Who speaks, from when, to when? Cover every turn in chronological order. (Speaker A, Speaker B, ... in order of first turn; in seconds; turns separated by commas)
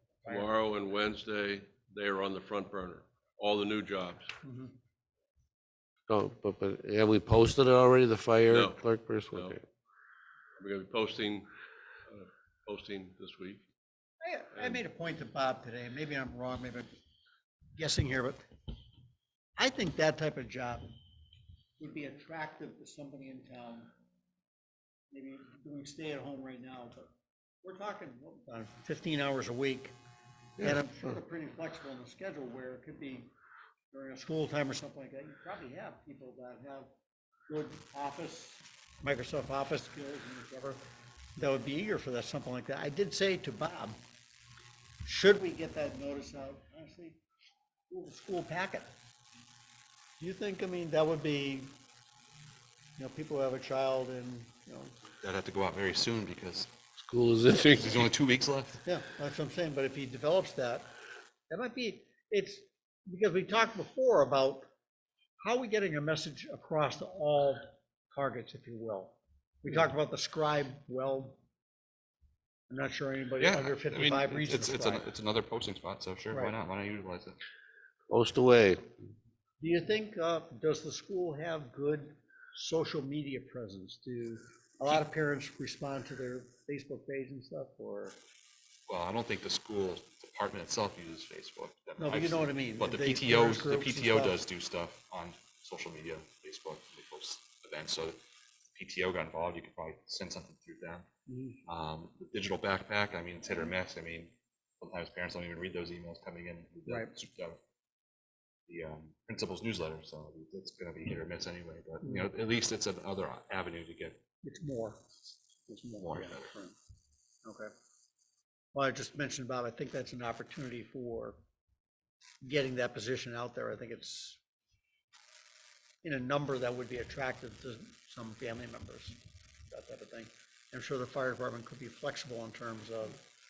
Speaker A: 0.2-4.3, Speaker B: 4.4-4.7, Speaker C: 6.1-9.6, Speaker A: 8.5-8.8, Speaker A: 10.6-11.4, Speaker A: 12.1-13.6, Speaker B: 14.2-16.9, Speaker B: 17.7-18.4, Speaker B: 19.6-20.9, Speaker B: 21.8-23.9, Speaker B: 25.1-27.1, Speaker B: 27.6-29.9, Speaker B: 30.6-33.3, Speaker B: 33.9-36.9, Speaker B: 37.5-40.8, Speaker B: 41.4-44.0, Speaker B: 45.0-47.2, Speaker B: 47.9-48.9, Speaker B: 50.2-51.7, Speaker B: 53.0-54.9, Speaker D: 55.2-56.7, Speaker C: 57.0-58.0, Speaker D: 57.8-58.8, Speaker B: 58.8-60.9, Speaker B: 61.5-64.7, Speaker B: 65.4-71.4, Speaker B: 72.7-75.0, Speaker D: 73.4-77.4, Speaker C: 78.1-78.9, Speaker B: 79.6-88.2, Speaker D: 88.9-98.2, Speaker B: 92.0-94.4, Speaker D: 98.7-101.0, Speaker B: 101.3-101.6, Speaker D: 101.7-107.6, Speaker B: 106.9-107.1, Speaker D: 108.7-114.2, Speaker B: 114.4-115.1, Speaker B: 115.7-116.7, Speaker D: 116.0-116.5, Speaker B: 117.4-117.7, Speaker B: 118.7-121.4, Speaker B: 122.4-124.4, Speaker B: 126.0-129.2, Speaker B: 129.7-133.2